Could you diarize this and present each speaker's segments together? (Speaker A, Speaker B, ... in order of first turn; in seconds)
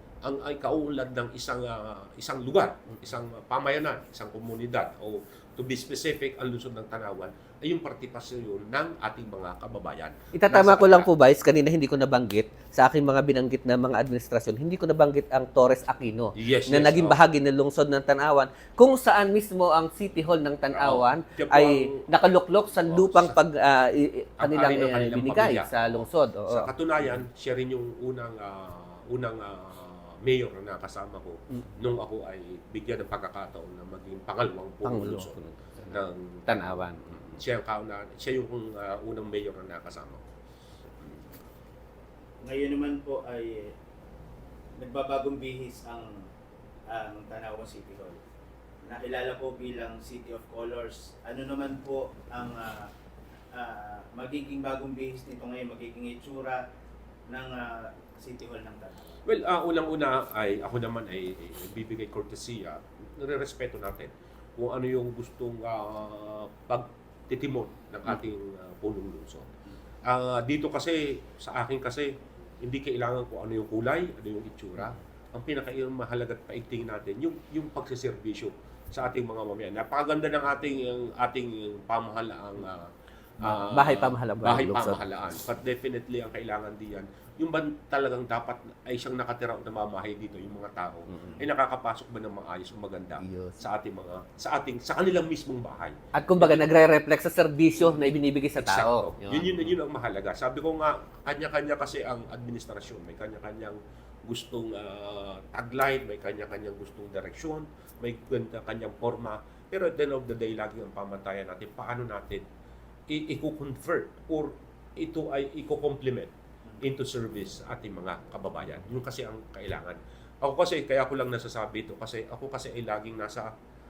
Speaker A: 0.2-11.1, 16.4-17.2, 20.7-23.4, 24.4-35.4, 35.9-40.2, 41.0-41.3, 59.2-69.5, 70.1-72.1, 72.6-82.9, 83.4-96.7, 98.6-112.4, 113.1-123.5
Speaker B: 10.3-26.7, 31.6-31.8, 34.8-37.4, 83.4-85.0, 91.1-91.5, 93.2-93.6, 96.2-99.8
Speaker C: 42.4-43.8, 44.8-46.3, 46.9-48.2, 48.8-52.9, 53.5-56.6, 57.3-59.2